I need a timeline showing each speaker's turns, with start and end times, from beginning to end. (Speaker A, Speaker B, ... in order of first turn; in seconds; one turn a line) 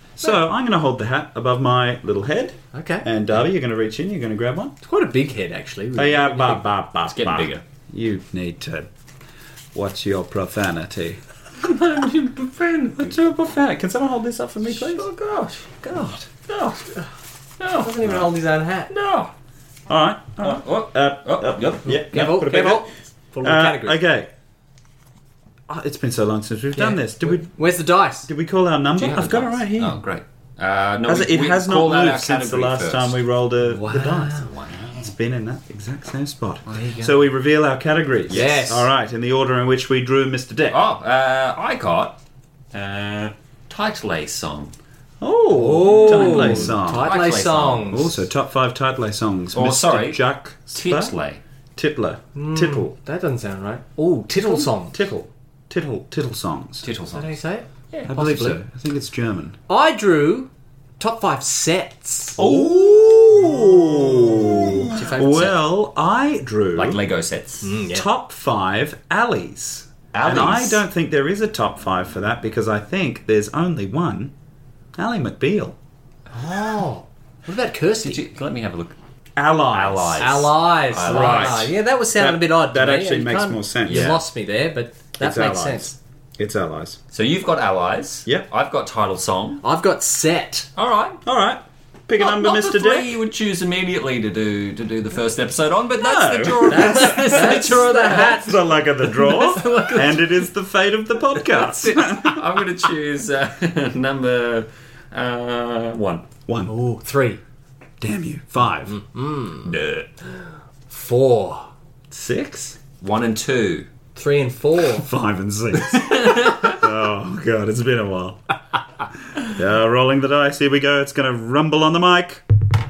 Speaker A: 0.2-4.7
Speaker B: 2.7-3.1
Speaker B: 4.8-6.6
Speaker A: 6.0-8.9
Speaker C: 7.0-7.6
Speaker A: 9.7-11.2
Speaker C: 11.6-13.2
Speaker A: 13.0-15.1
Speaker C: 14.6-16.9
Speaker C: 17.6-18.2
Speaker B: 17.7-18.9
Speaker C: 18.9-19.3
Speaker A: 19.9-22.9
Speaker C: 20.4-21.9
Speaker B: 21.9-24.0
Speaker A: 23.4-24.3
Speaker A: 25.7-27.5
Speaker B: 26.8-28.3
Speaker A: 28.2-30.0
Speaker C: 29.0-33.2
Speaker A: 31.1-40.8
Speaker B: 33.6-34.5
Speaker C: 34.5-35.0
Speaker B: 36.6-37.2
Speaker C: 38.3-38.7
Speaker B: 38.3-38.9
Speaker C: 40.7-42.2
Speaker C: 42.7-44.7
Speaker A: 45.2-47.1
Speaker B: 45.5-48.2
Speaker C: 45.9-48.0
Speaker A: 47.9-51.1
Speaker C: 49.5-51.4
Speaker A: 51.8-52.9
Speaker B: 52.3-55.0
Speaker A: 54.3-56.9
Speaker C: 56.8-57.4
Speaker B: 57.1-58.6
Speaker A: 58.1-59.6
Speaker B: 59.7-62.4
Speaker A: 62.4-67.0
Speaker C: 62.4-63.5
Speaker B: 64.5-65.6
Speaker C: 66.8-67.7
Speaker B: 67.6-68.0
Speaker A: 67.9-74.3
Speaker C: 70.1-70.8
Speaker A: 75.0-75.8
Speaker B: 76.3-78.2
Speaker C: 78.0-78.9
Speaker A: 79.4-80.3
Speaker C: 79.7-81.7
Speaker B: 80.2-85.9
Speaker A: 81.0-84.1
Speaker C: 83.8-84.2
Speaker A: 85.2-87.0
Speaker C: 87.1-89.6
Speaker B: 89.6-90.7
Speaker C: 90.8-91.2
Speaker A: 91.2-93.1
Speaker C: 92.2-100.3
Speaker A: 95.9-102.4
Speaker B: 96.6-98.6
Speaker C: 101.5-106.3
Speaker A: 106.5-106.7
Speaker B: 106.6-107.4
Speaker A: 108.0-109.0
Speaker B: 108.9-109.7
Speaker C: 109.6-110.1
Speaker B: 110.9-111.7
Speaker A: 112.1-112.8
Speaker C: 113.0-113.9
Speaker B: 114.1-115.1
Speaker A: 114.9-118.4
Speaker C: 115.7-116.8
Speaker A: 119.4-122.4